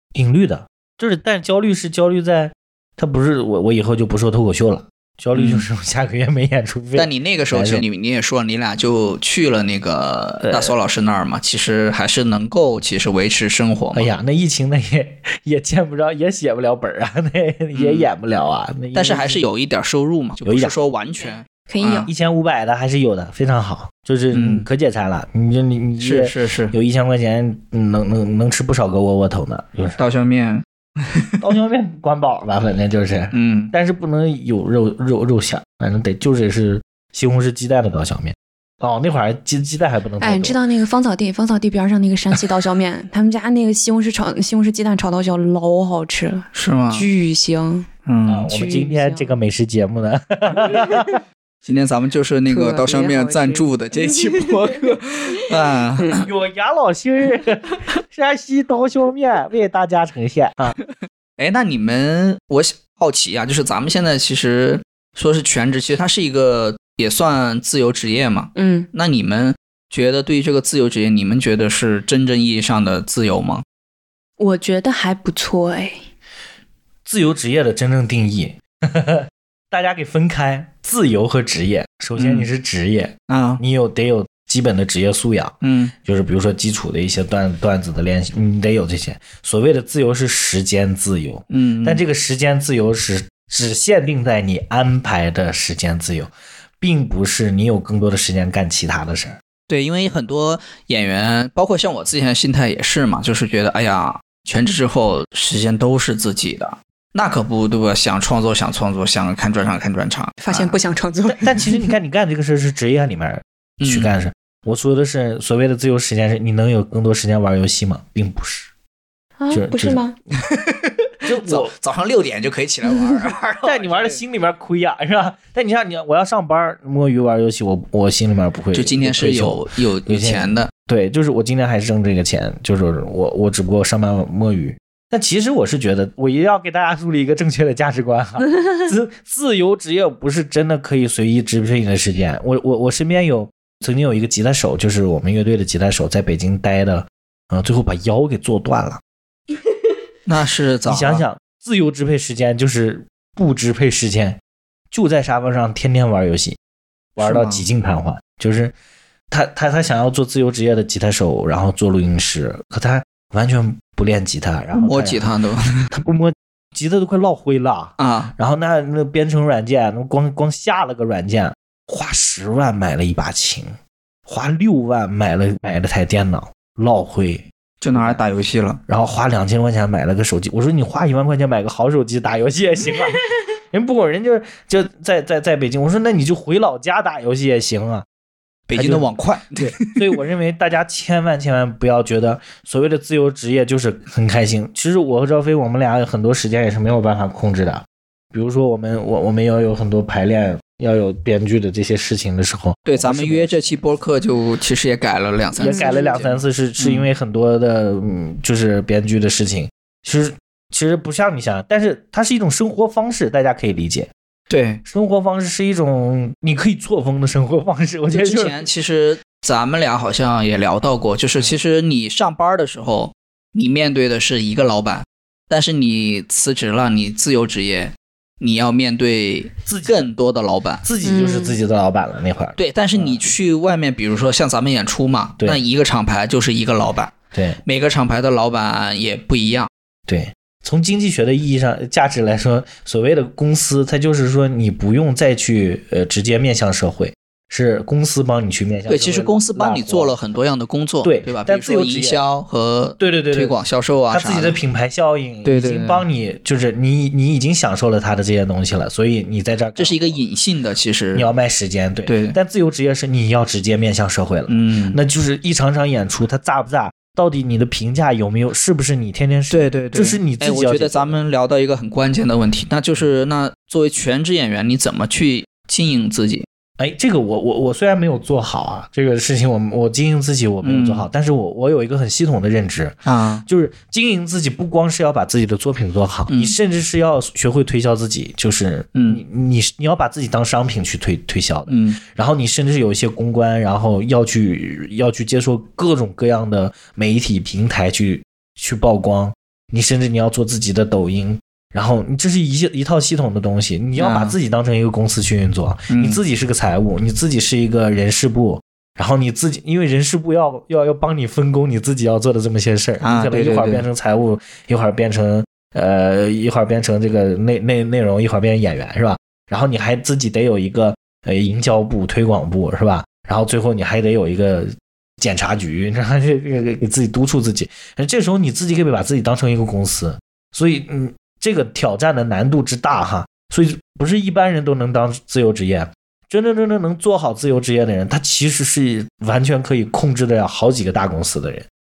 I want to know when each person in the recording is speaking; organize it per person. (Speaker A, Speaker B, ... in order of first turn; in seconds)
Speaker A: 0.1-7.8, 10.4-10.7, 13.9-19.4, 20.4-20.7, 22.0-30.0, 31.4-40.6, 48.3-51.2, 56.2-60.8, 77.0-99.4, 111.3-118.7, 119.5-120.0, 121.2-121.7, 123.6-149.0, 150.8-154.4, 154.9-156.6, 157.2-158.7, 159.3-165.3, 165.9-173.7, 174.2-178.2, 178.9-188.0, 188.7-189.1, 189.6-203.7, 205.6-214.1, 214.9-218.7, 229.7-230.1, 230.8-233.2, 237.3-237.6, 240.1-250.1, 251.0-252.2, 253.0-253.5, 254.1-260.2, 261.1-271.2, 276.8-341.7
Speaker B: 5.3-5.7, 6.9-14.1, 17.7-18.1, 18.9-22.1, 24.3-24.6, 26.0-26.7, 30.0-31.3, 33.3-33.7, 46.5-47.1, 48.0-48.5, 51.6-56.2, 61.4-73.6, 82.2-82.5, 83.3-83.6, 85.6-85.9, 91.5-92.0, 99.7-110.8, 113.8-114.1, 120.4-124.2, 128.7-130.7, 150.2-151.2, 157.2-157.6, 164.7-165.9, 168.0-168.3, 177.8-178.8, 188.7-190.2, 202.8-207.1, 214.5-214.8, 218.1-230.8, 232.6-239.7, 248.9-254.6, 255.4-256.0, 259.8-261.3, 262.1-262.4, 264.5-265.0, 269.5-276.4, 280.6-281.1, 283.1-283.4, 286.3-286.5, 288.9-289.2, 291.7-292.0, 303.9-304.4, 305.9-306.2, 313.0-313.8
Speaker C: 21.7-22.1, 40.2-47.9, 48.5-49.3, 52.5-54.8, 68.5-68.9, 74.4-76.0, 110.4-111.9, 119.4-120.2, 205.6-206.2, 231.0-231.6